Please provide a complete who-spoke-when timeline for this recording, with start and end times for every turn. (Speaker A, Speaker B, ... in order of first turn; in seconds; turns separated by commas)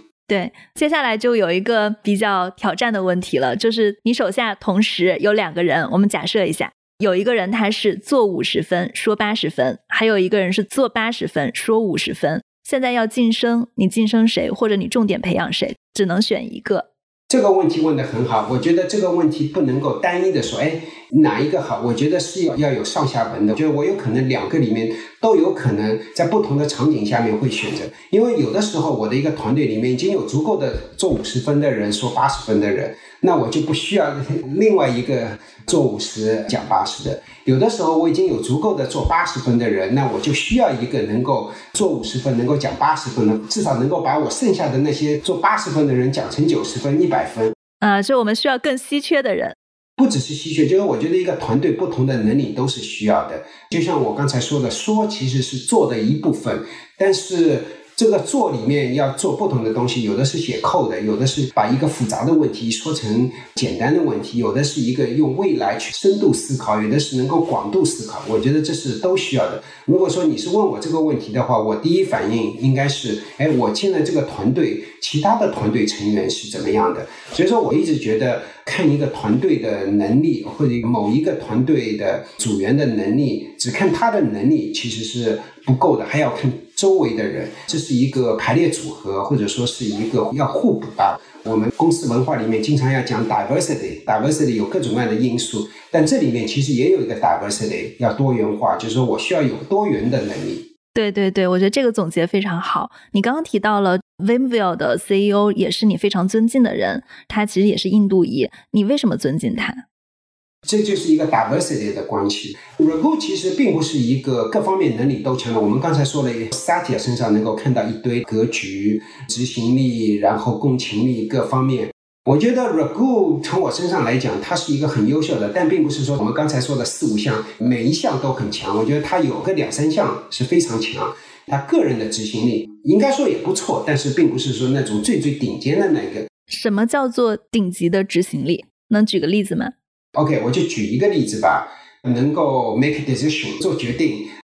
Speaker A: 0.3-16.9, Speaker B: 17.3-47.5, Speaker A: 47.8-49.5, Speaker B: 50.0-100.7, Speaker A: 100.9-109.8, Speaker B: 110.6-136.3, Speaker A: 136.5-139.7, Speaker B: 140.1-144.3